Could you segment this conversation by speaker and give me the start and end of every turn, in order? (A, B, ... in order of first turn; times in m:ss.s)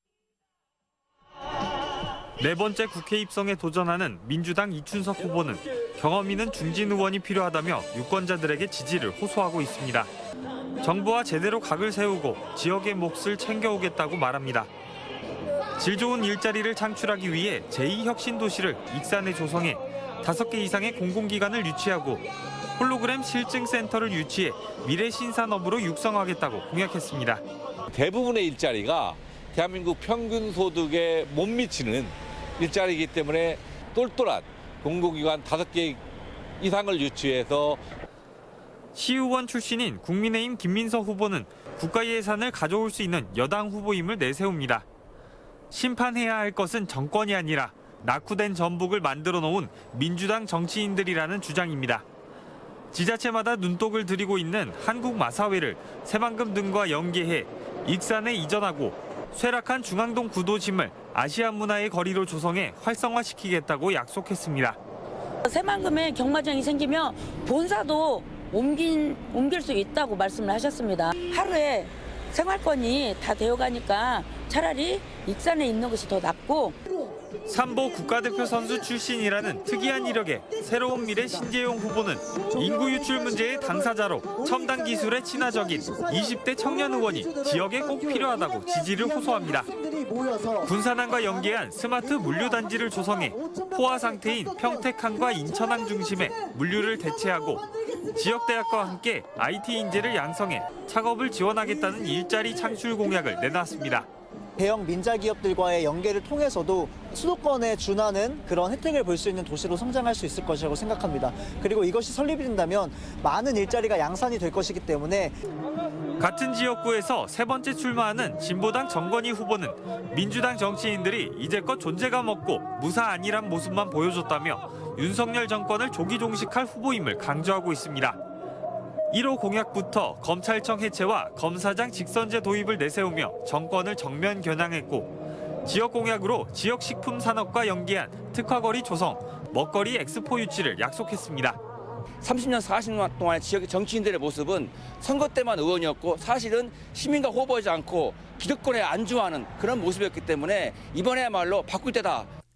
0:02.4-0:10.1 A
0:10.8-0:14.7 A
0:15.8-0:22.2 A
0:22.8-0:27.4 A
0:27.9-0:36.0 B
0:36.6-0:37.8 B
0:39.0-0:44.9 A
0:45.7-0:52.0 A
0:52.9-1:04.8 A
1:05.4-1:16.8 C
1:17.5-1:29.7 A
1:29.7-1:30.6 D
1:30.6-1:44.1 A
1:44.6-1:55.3 D
1:56.2-2:08.2 A
2:09.1-2:15.1 A
2:15.6-2:21.6 A
2:22.2-2:32.3 E